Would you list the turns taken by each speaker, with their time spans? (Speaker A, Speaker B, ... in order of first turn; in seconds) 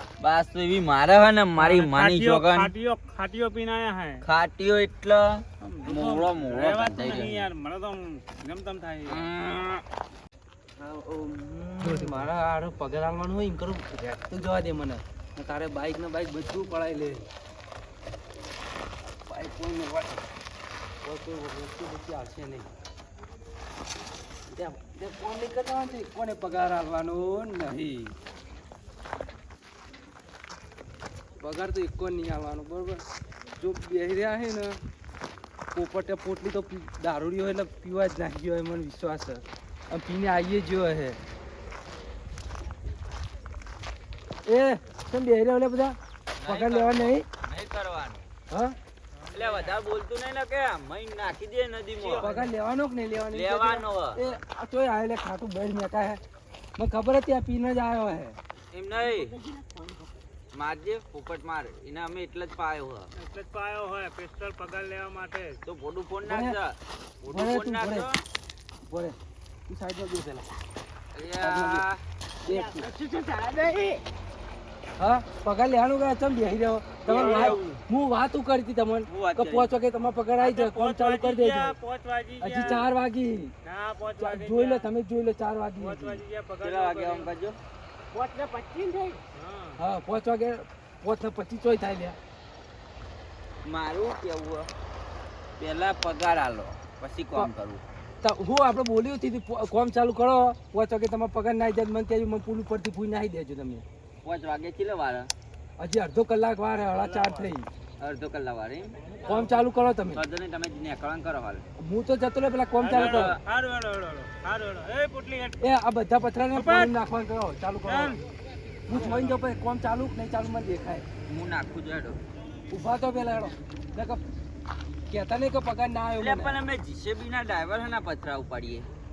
Speaker A: 0.2-2.7, 4.2-7.5, 9.1-9.8, 46.4-48.3, 49.3-52.3, 53.3-54.2, 58.7-59.3, 60.5-63.1, 65.7-68.2, 71.1-72.0, 77.1-77.6, 79.1-79.7, 86.6-87.6, 93.6-94.7, 95.6-97.8, 104.2-105.3, 108.0-109.0, 110.1-111.6, 112.9-113.4, 121.3-122.2, 126.2-128.9
Speaker B: 1.6-4.2, 5.6-9.3, 11.2-12.2, 49.2-49.8, 63.1-65.6, 77.1-77.8, 80.4-82.8, 83.6-84.9, 85.8-87.3, 89.3-89.8, 106.8-107.5, 109.0-109.5, 112.8-115.6, 116.5-116.9, 117.8-118.2, 118.9-119.4
Speaker C: 10.8-17.3, 19.2-20.2, 21.0-22.7, 24.5-28.1, 31.4-33.0, 33.6-34.8, 35.7-41.2, 44.5-47.2, 48.5-48.8, 52.2-56.2, 56.8-58.4, 66.2-66.5, 67.3-68.1, 68.8-69.2, 69.7-70.5, 71.4-71.8, 72.5-72.9, 75.0-81.7, 82.4-83.5, 84.2-86.2, 89.8-92.2, 98.2-103.8, 105.8-107.7, 109.2-110.2, 111.8-113.4, 115.6-118.2, 118.9-121.0, 122.7-124.2, 125.1-126.6
Speaker D: 58.9-60.1, 72.4-74.0, 88.1-89.2